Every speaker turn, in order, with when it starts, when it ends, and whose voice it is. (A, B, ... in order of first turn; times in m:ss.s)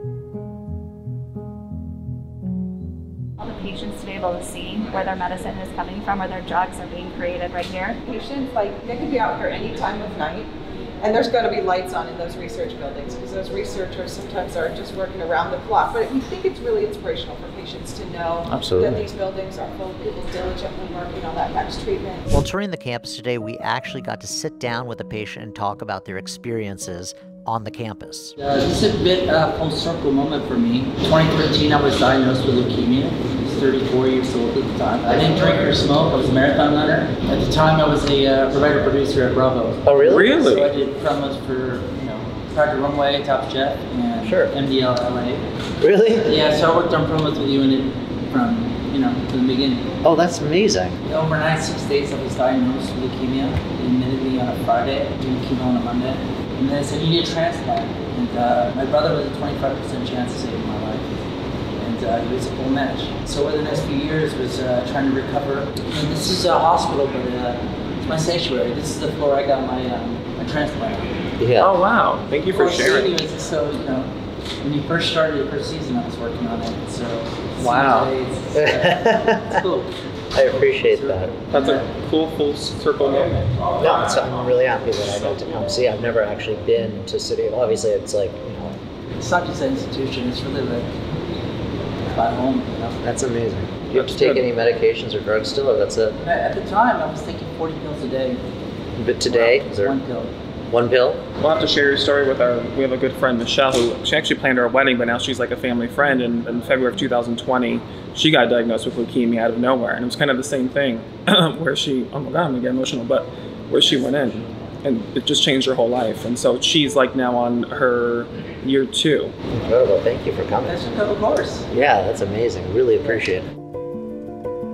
0:03.4-0:08.0 A
0:08.0-0:22.3 B
0:18.5-0:19.0 C
0:22.3-0:28.4 C
0:28.4-0:45.4 D
0:39.8-0:40.3 C
0:40.1-0:40.7 E
0:44.2-0:44.5 C
0:45.8-0:46.3 C
0:46.2-0:49.9 D
0:50.0-0:51.0 C
0:51.0-1:01.1 D
1:01.8-1:11.1 D
1:11.4-1:11.7 C
1:11.6-1:13.1 E
1:12.5-1:14.1 D
1:14.6-1:21.9 D
1:17.8-1:18.1 E
1:18.6-1:19.4 C
1:20.3-1:21.4 C
1:21.5-1:24.2 E
1:23.8-1:28.8 C
1:29.2-1:30.9 D
1:32.0-1:33.0 D
1:33.0-1:36.2 C
1:33.9-1:34.4 E
1:36.2-1:38.4 D
1:39.0-1:40.0 C
1:39.2-1:40.3 D
1:40.7-1:41.2 C
1:41.4-1:59.3 E
1:59.5-2:00.8 C
2:00.6-2:01.7 D
2:01.7-2:03.5 C
2:03.0-2:03.3 D